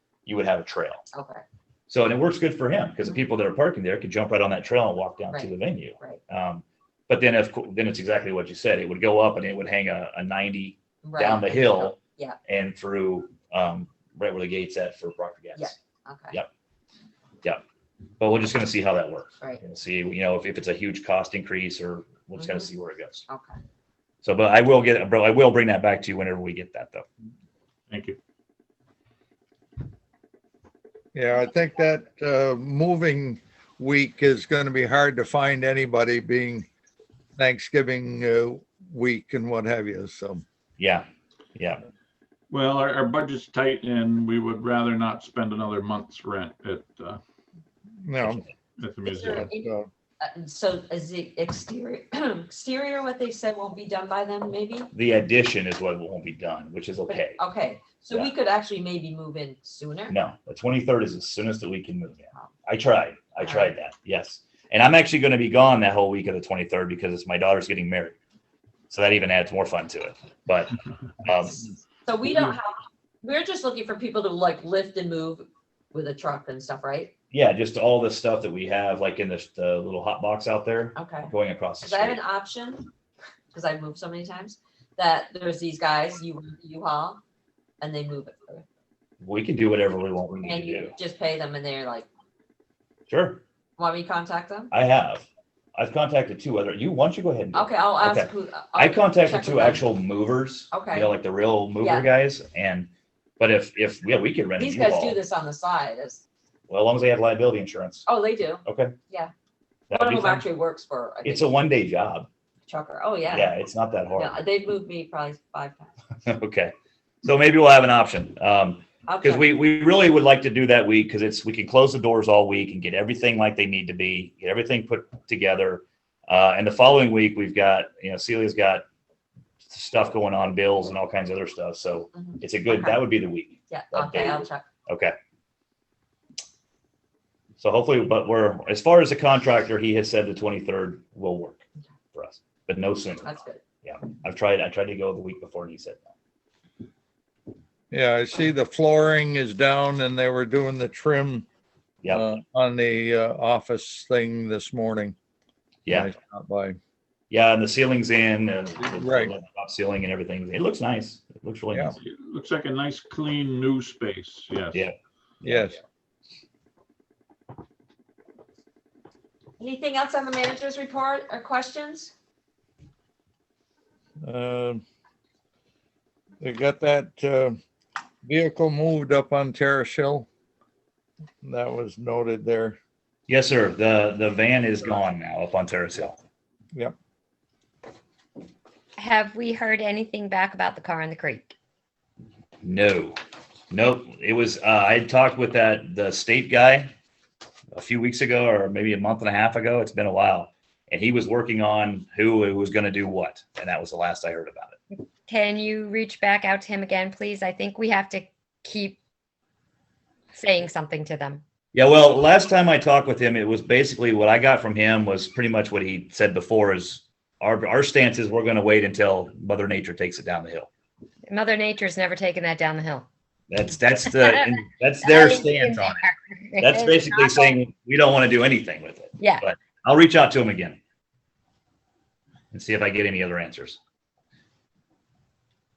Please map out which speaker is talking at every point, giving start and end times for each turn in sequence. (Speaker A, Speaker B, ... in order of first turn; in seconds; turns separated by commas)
Speaker A: 0.3-1.0, Speaker B: 1.1-1.4, Speaker A: 1.9-15.8, Speaker B: 5.3-6.2, Speaker B: 11.0-12.4, Speaker B: 15.6-16.4, Speaker A: 18.2-23.3, Speaker B: 22.4-22.7, Speaker B: 23.3-23.6, Speaker A: 24.2-27.1, Speaker C: 27.9-28.2, Speaker D: 31.1-36.7, Speaker D: 37.4-40.4, Speaker A: 40.8-41.8, Speaker C: 42.5-47.2, Speaker D: 48.0-48.5, Speaker C: 48.8-49.5, Speaker D: 49.2-49.9, Speaker B: 50.2-54.9, Speaker A: 54.9-57.4, Speaker B: 57.1-60.1, Speaker A: 60.1-68.2, Speaker B: 63.4-63.7, Speaker A: 68.9-71.7, Speaker B: 72.1-77.1, Speaker A: 77.3-82.2, Speaker B: 81.0-82.9, Speaker B: 83.5-87.2, Speaker B: 87.8-88.7, Speaker A: 89.2-90.9, Speaker B: 90.4-92.1, Speaker A: 93.1-93.4, Speaker B: 93.8-94.7, Speaker A: 94.7-102.9, Speaker B: 97.5-99.8, Speaker B: 100.7-101.1, Speaker B: 101.8-102.1, Speaker A: 103.4-105.2, Speaker B: 104.6-106.2, Speaker A: 106.7-108.1, Speaker B: 108.1-109.3, Speaker A: 108.6-109.0, Speaker A: 109.9-110.5, Speaker B: 109.9-111.5, Speaker A: 111.2-112.3, Speaker B: 112.7-113.5, Speaker A: 113.3-114.4, Speaker B: 114.2-115.9, Speaker A: 116.2-128.8, Speaker B: 119.1-119.5, Speaker A: 129.7-135.2, Speaker B: 132.1-133.0, Speaker B: 133.7-134.7, Speaker A: 137.6-141.6, Speaker A: 142.1-146.1, Speaker B: 143.2-143.6, Speaker D: 147.9-151.5, Speaker A: 152.0-152.3, Speaker D: 152.1-155.2, Speaker A: 155.8-156.1, Speaker D: 155.9-156.8, Speaker A: 157.3-161.9, Speaker D: 159.0-159.3, Speaker C: 162.0-164.9, Speaker A: 164.7-165.7, Speaker D: 165.4-165.8, Speaker B: 169.6-172.1, Speaker D: 174.2-174.8, Speaker D: 176.4-177.6, Speaker D: 178.2-180.3, Speaker D: 181.4-182.8, Speaker A: 183.3-186.2, Speaker E: 189.0-191.5, Speaker A: 192.6-193.2, Speaker A: 193.7-196.9, Speaker A: 197.7-204.8, Speaker E: 205.3-209.0, Speaker E: 210.3-211.4, Speaker A: 211.7-220.7, Speaker E: 221.3-223.1, Speaker A: 223.5-226.1, Speaker E: 224.1-224.4, Speaker E: 225.0-227.6, Speaker A: 226.6-230.8, Speaker A: 232.5-233.8